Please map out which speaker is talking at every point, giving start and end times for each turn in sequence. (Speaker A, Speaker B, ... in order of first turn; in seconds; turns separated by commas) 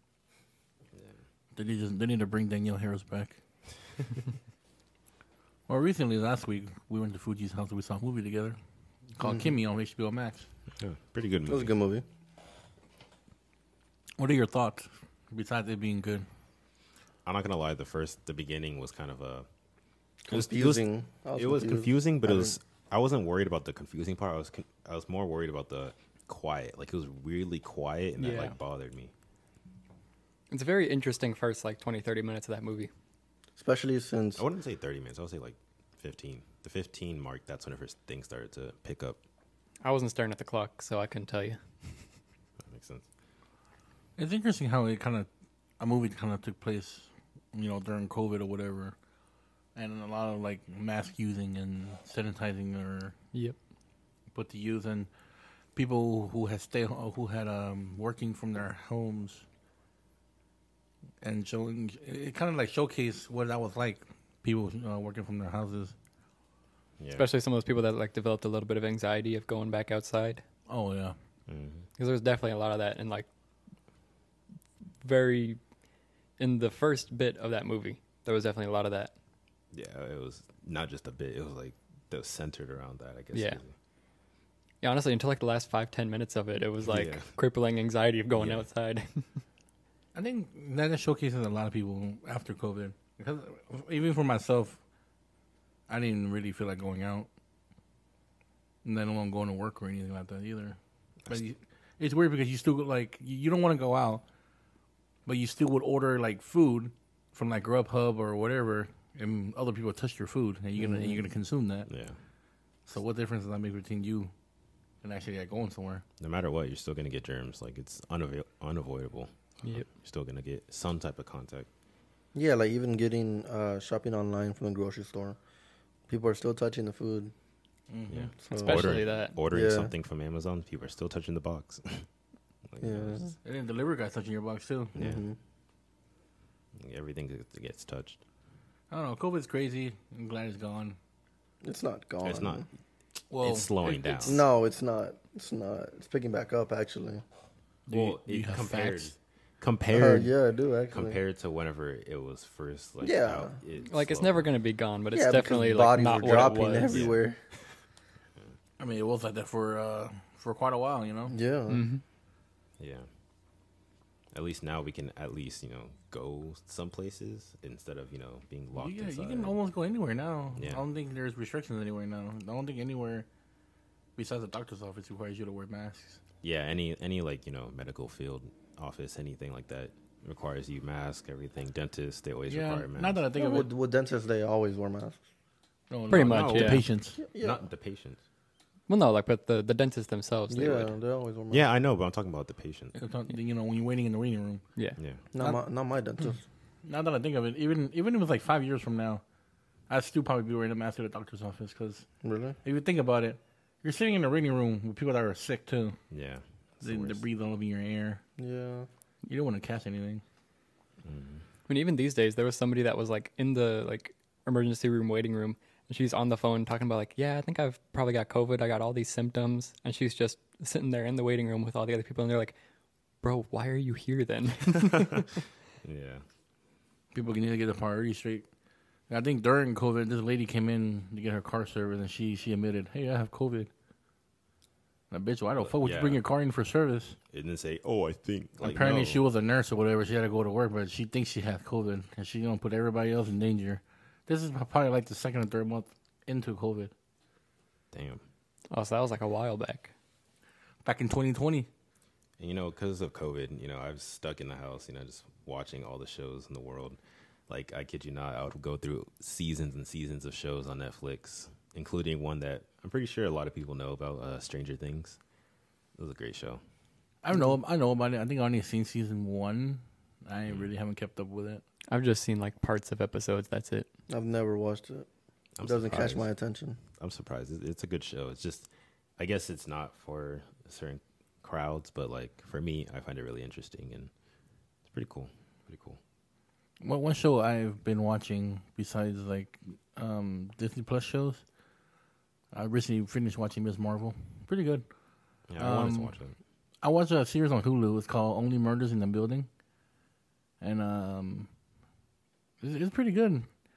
Speaker A: 1.6-3.4, Speaker A: 5.7-8.6, Speaker A: 9.2-10.5, Speaker B: 9.2-9.5, Speaker C: 10.8-11.7, Speaker B: 11.5-12.1, Speaker A: 14.2-16.3, Speaker C: 17.2-19.5, Speaker B: 20.3-22.6, Speaker C: 20.3-20.8, Speaker C: 21.4-29.1, Speaker D: 28.2-28.6, Speaker D: 30.5-32.9, Speaker B: 33.6-34.4, Speaker C: 34.4-39.2, Speaker D: 39.8-41.6, Speaker C: 42.7-43.0, Speaker A: 44.2-45.3, Speaker A: 45.8-49.0, Speaker A: 49.8-53.1, Speaker A: 54.4-55.1, Speaker A: 55.8-59.4, Speaker A: 61.2-66.0, Speaker C: 67.0-67.3, Speaker D: 67.2-70.4, Speaker A: 70.7-71.2, Speaker C: 71.5-71.8, Speaker D: 72.0-73.3, Speaker D: 75.0-75.6, Speaker D: 76.4-79.1, Speaker C: 79.7-83.7, Speaker D: 83.3-83.6, Speaker D: 84.8-89.3, Speaker C: 86.8-87.3, Speaker C: 88.3-88.6, Speaker A: 90.2-94.8, Speaker A: 95.9-97.3, Speaker A: 98.8-104.2, Speaker A: 105.3-111.9, Speaker B: 110.8-111.2, Speaker C: 111.9-112.2, Speaker A: 112.9-114.3, Speaker A: 115.0-116.0, Speaker C: 116.2-121.7, Speaker B: 122.3-125.4, Speaker B: 126.1-127.3, Speaker A: 127.9-128.3, Speaker C: 128.1-132.1, Speaker B: 128.4-129.9, Speaker D: 128.5-129.4, Speaker C: 132.7-133.3, Speaker B: 132.8-133.3, Speaker A: 133.4-134.9, Speaker C: 134.9-135.2, Speaker B: 134.9-135.4, Speaker C: 136.8-138.2, Speaker A: 138.9-141.0, Speaker B: 141.6-142.7, Speaker C: 142.2-142.6, Speaker A: 143.3-144.4, Speaker C: 143.4-144.4, Speaker B: 144.2-147.2, Speaker A: 147.9-149.2, Speaker C: 147.9-150.3, Speaker B: 149.9-151.2, Speaker C: 150.9-154.5, Speaker B: 153.0-153.6, Speaker D: 153.8-157.1, Speaker B: 155.1-157.4, Speaker C: 156.9-157.2, Speaker A: 158.8-161.3, Speaker B: 161.3-161.9, Speaker D: 161.7-162.0, Speaker C: 162.8-163.1, Speaker C: 164.3-169.6, Speaker A: 168.8-173.3, Speaker C: 170.6-170.8, Speaker A: 174.2-176.2, Speaker C: 176.4-183.2, Speaker A: 182.5-183.7, Speaker B: 183.3-185.2, Speaker A: 185.9-187.2, Speaker D: 186.1-186.8, Speaker C: 186.1-188.2, Speaker B: 187.2-187.6, Speaker D: 188.9-190.9, Speaker B: 190.5-191.7, Speaker C: 191.5-193.0, Speaker A: 192.9-194.6, Speaker B: 195.3-196.4, Speaker A: 196.8-199.2, Speaker A: 199.9-202.1, Speaker B: 202.2-202.6, Speaker A: 202.6-206.0, Speaker C: 206.1-207.2, Speaker A: 206.8-208.2, Speaker B: 208.4-208.9, Speaker A: 209.2-210.2, Speaker C: 211.0-211.4, Speaker D: 211.7-222.6, Speaker D: 223.2-225.3, Speaker C: 224.9-225.3, Speaker C: 225.8-226.2, Speaker A: 227.1-228.5, Speaker A: 229.1-233.7, Speaker A: 235.1-237.2, Speaker C: 235.6-236.2, Speaker C: 237.3-239.2, Speaker A: 238.6-246.9, Speaker C: 247.9-248.2, Speaker D: 248.7-249.9, Speaker A: 250.8-251.7, Speaker C: 252.4-265.2, Speaker C: 266.0-266.6, Speaker A: 267.2-271.6, Speaker D: 271.9-273.9, Speaker B: 274.1-275.1, Speaker C: 275.6-276.3, Speaker B: 275.6-276.8, Speaker C: 277.0-284.1, Speaker C: 284.9-286.0, Speaker A: 286.8-291.4, Speaker A: 292.5-294.9, Speaker C: 295.5-296.4, Speaker A: 295.6-296.1, Speaker A: 296.8-299.5, Speaker A: 300.6-301.5, Speaker A: 302.6-303.5